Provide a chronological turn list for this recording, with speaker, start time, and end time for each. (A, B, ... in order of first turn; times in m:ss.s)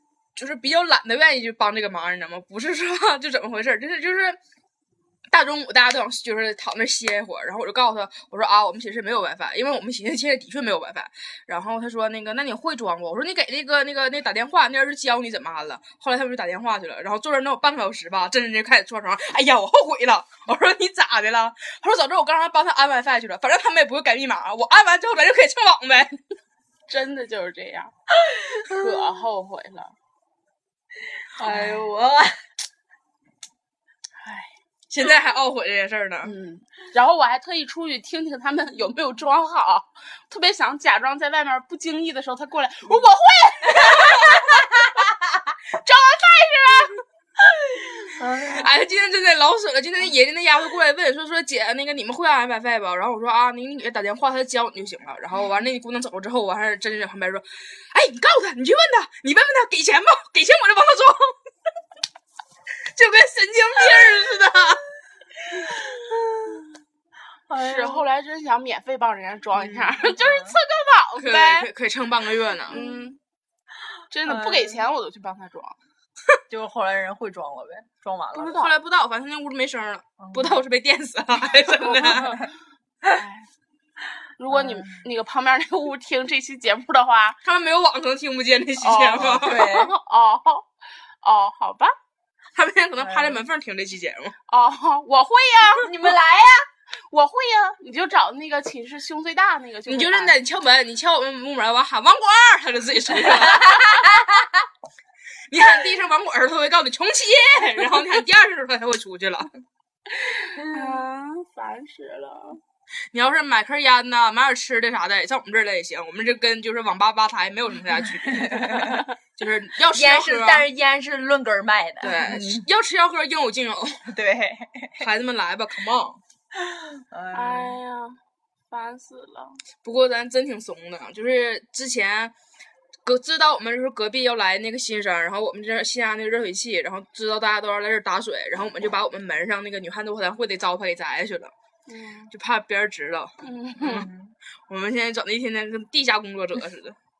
0:00.4-0:04.4 A
0:05.3-0:26.2 A
0:26.9-0:27.9 B
0:28.2-0:28.9 C
0:28.7-0:30.0 B
0:31.4-0:32.4 C
0:34.2-0:34.5 B
0:34.9-0:36.3 A
0:36.2-0:45.0 B
0:45.8-0:47.0 B
0:48.1-0:48.7 C
0:48.5-1:01.3 A
1:02.9-1:04.8 A
1:05.5-1:06.7 C
1:07.5-1:08.1 C
1:07.6-1:11.7 B
1:09.6-1:10.5 C
1:11.2-1:12.8 A
1:12.7-1:13.2 B
1:12.7-1:13.0 C
1:14.1-1:15.8 B
1:14.3-1:14.8 C
1:16.5-1:18.7 C
1:18.4-1:18.7 B
1:18.4-1:22.4 A
1:20.2-1:20.6 C
1:21.8-1:22.5 B
1:23.1-1:23.5 B
1:24.4-1:27.4 B
1:24.5-1:25.0 C
1:27.4-1:29.7 A
1:28.8-1:30.7 B
1:29.2-1:29.9 C
1:31.2-1:31.9 B
1:32.6-1:34.4 A
1:33.0-1:33.4 C
1:34.5-1:35.9 B
1:35.8-1:36.7 C
1:37.1-1:40.4 B
1:39.9-1:44.2 A
1:43.6-1:44.3 C
1:45.5-1:49.5 A
1:50.1-1:52.6 B
1:50.6-1:51.0 C
1:53.1-2:00.7 A
1:58.3-1:59.0 C
1:59.9-2:02.7 C
2:02.0-2:04.1 A
2:04.1-2:05.1 C
2:05.0-2:06.2 A
2:06.6-2:07.8 C
2:07.3-2:08.2 B
2:08.7-2:09.6 B
2:09.8-2:12.3 A
2:13.0-2:21.5 A
2:21.9-2:22.3 B
2:22.3-2:24.1 A
2:23.4-2:24.1 B
2:23.9-2:24.3 C
2:24.7-2:27.0 A